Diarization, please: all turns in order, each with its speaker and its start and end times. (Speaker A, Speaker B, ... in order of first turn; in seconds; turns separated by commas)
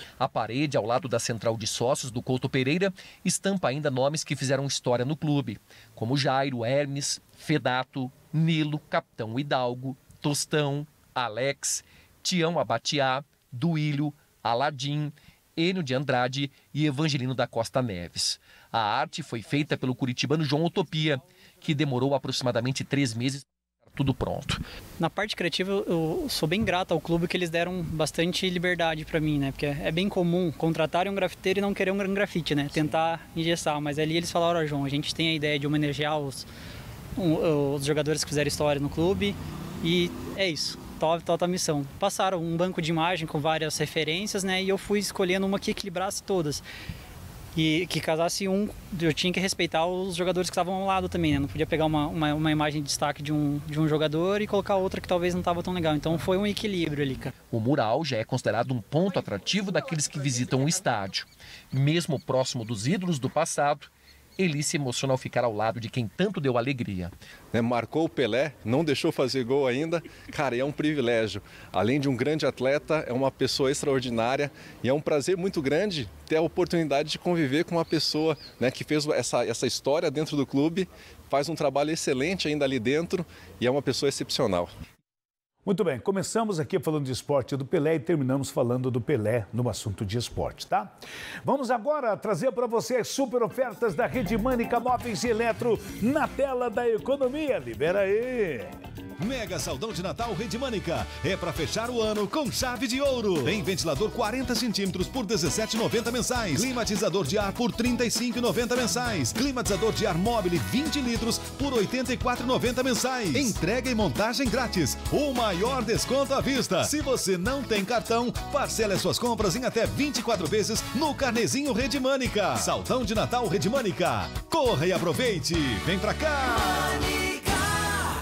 Speaker A: 0.2-24.6, Speaker B: 25.0-36.5, Speaker B: 37.1-46.6, Speaker B: 47.5-57.3, Speaker A: 57.5-67.1, Speaker C: 67.5-84.7, Speaker D: 85.6-90.9, Speaker D: 91.4-98.8, Speaker E: 99.2-127.4